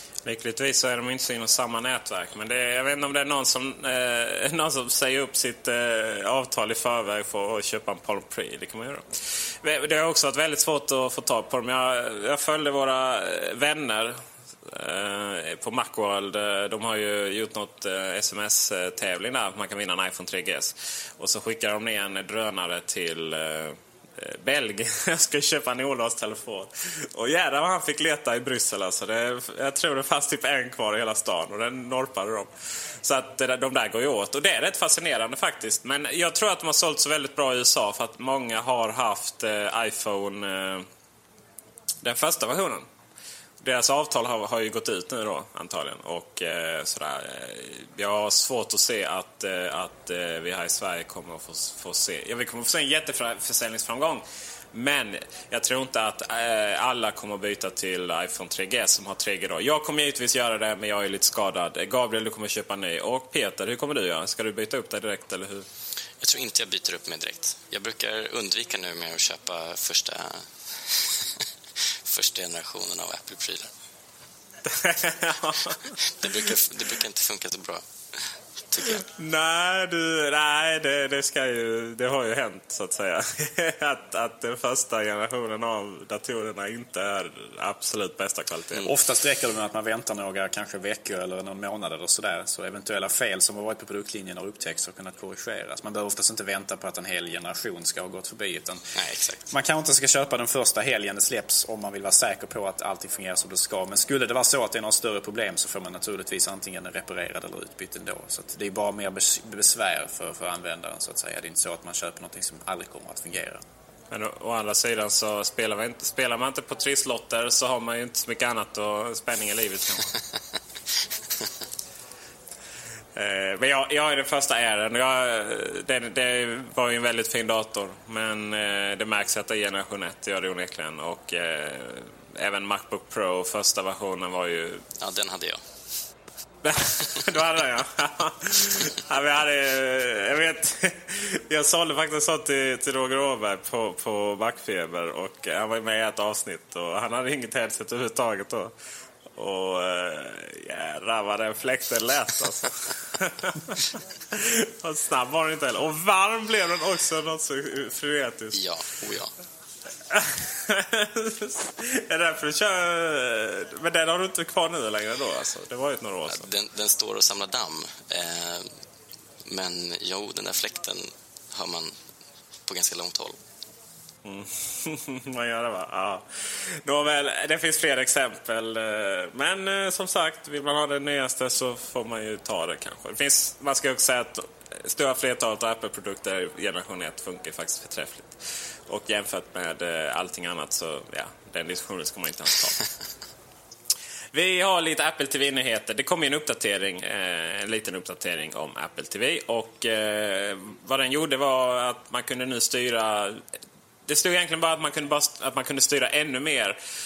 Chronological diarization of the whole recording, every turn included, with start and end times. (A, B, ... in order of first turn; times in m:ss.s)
0:00.2-0:09.0 A
0:09.6-0:32.5 A
0:33.0-0:40.9 A
0:42.0-0:42.9 A
0:43.6-1:05.7 A
1:06.2-1:11.4 B
1:12.0-1:13.7 B
1:14.7-1:15.9 A
1:16.0-1:19.0 B
1:18.9-1:28.9 A
1:28.8-1:38.9 C
1:38.9-1:39.5 B
1:39.5-1:53.6 C
1:54.1-2:00.2 A
2:03.1-2:14.8 A
2:15.0-2:15.6 B
2:16.6-2:28.7 A
2:29.3-2:38.6 A
2:38.5-2:39.3 B
2:40.1-2:46.5 A
2:46.3-2:48.7 B
2:49.4-2:52.0 B
2:52.6-2:53.4 B
2:54.2-3:12.9 A
3:14.3-3:23.4 A
3:24.1-3:26.8 A